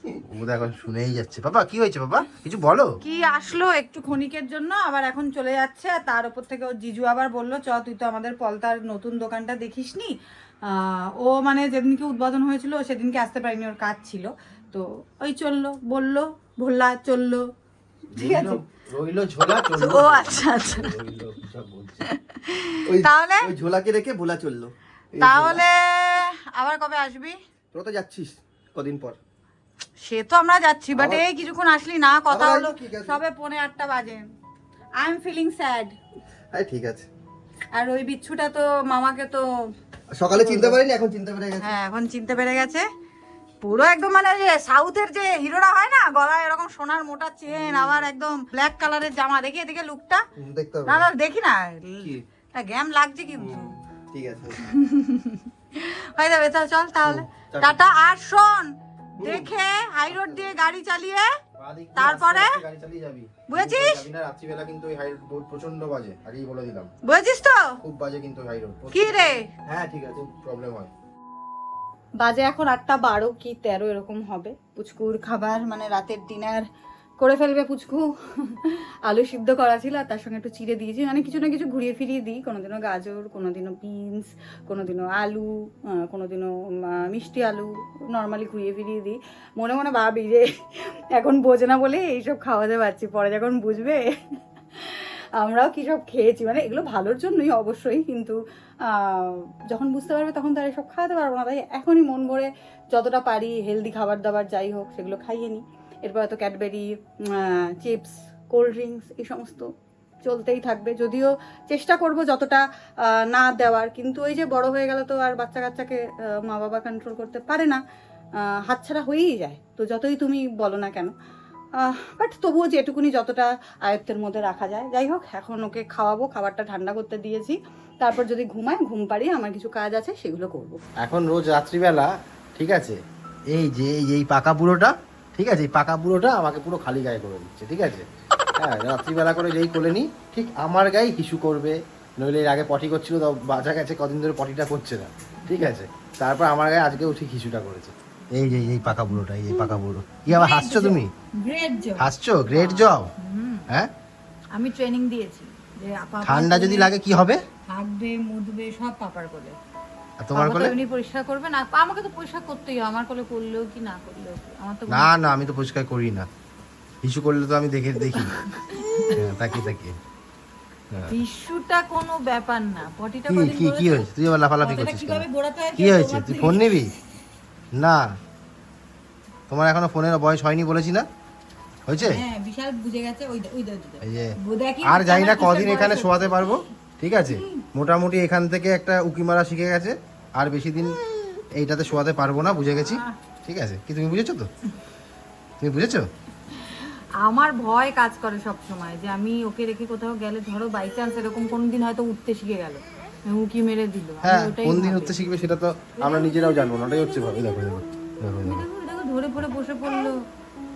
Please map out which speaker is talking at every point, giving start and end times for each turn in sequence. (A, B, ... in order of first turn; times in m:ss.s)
0:00.2-0:02.9 A
0:03.0-0:10.1 B
0:10.6-0:17.5 B
0:18.1-0:22.0 A
0:18.2-0:18.6 B
0:19.8-0:20.9 B
0:22.0-0:23.5 B
0:22.9-0:25.6 C
0:25.2-0:27.4 B
0:27.7-0:29.2 C
0:30.0-0:34.2 B
0:30.9-0:31.2 C
0:32.3-0:33.2 C
0:35.0-0:36.0 B
0:36.5-0:37.1 C
0:37.7-0:39.4 B
0:40.1-0:41.7 C
0:40.3-0:40.8 B
0:41.6-0:42.9 B
0:43.6-0:50.2 B
0:50.4-0:51.1 C
0:50.8-0:53.7 B
0:53.4-0:54.7 C
0:54.6-1:01.3 B
0:57.0-0:57.8 C
0:59.2-0:59.5 C
1:01.6-1:06.9 A
1:01.9-1:02.6 B
1:03.5-1:04.0 B
1:07.0-1:07.8 B
1:07.8-1:09.3 A
1:08.9-1:09.5 B
1:09.7-1:10.3 C
1:10.3-1:10.9 A
1:12.2-1:16.7 B
1:17.2-1:30.5 B
1:31.1-1:34.0 B
1:34.8-1:38.4 B
1:38.9-1:49.7 B
1:50.2-1:57.8 B
1:58.6-2:01.1 B
2:01.8-2:10.8 B
2:11.0-2:13.0 A
2:13.5-2:18.1 A
2:18.6-2:31.1 A
2:29.5-2:33.7 B
2:32.0-2:33.1 A
2:34.6-2:36.9 B
2:36.2-2:37.4 A
2:37.7-2:39.6 B
2:40.2-2:40.7 A
2:40.4-2:45.1 B
2:44.9-2:46.2 A
2:47.0-2:48.4 A
2:48.2-2:49.6 B
2:49.1-2:50.0 A
2:51.1-2:54.1 B
2:53.3-2:56.9 A
2:54.6-2:56.8 B
2:57.8-2:58.0 A
2:59.5-3:01.1 A
3:01.9-3:02.2 A
3:02.0-3:06.6 B
3:04.0-3:04.3 A
3:04.8-3:11.0 A
3:07.2-3:07.6 B
3:11.6-3:14.5 A
3:12.8-3:13.2 B
3:15.6-3:16.1 A
3:16.5-3:25.2 B
3:24.2-3:28.6 A
3:26.0-3:27.8 B
3:28.4-3:30.2 B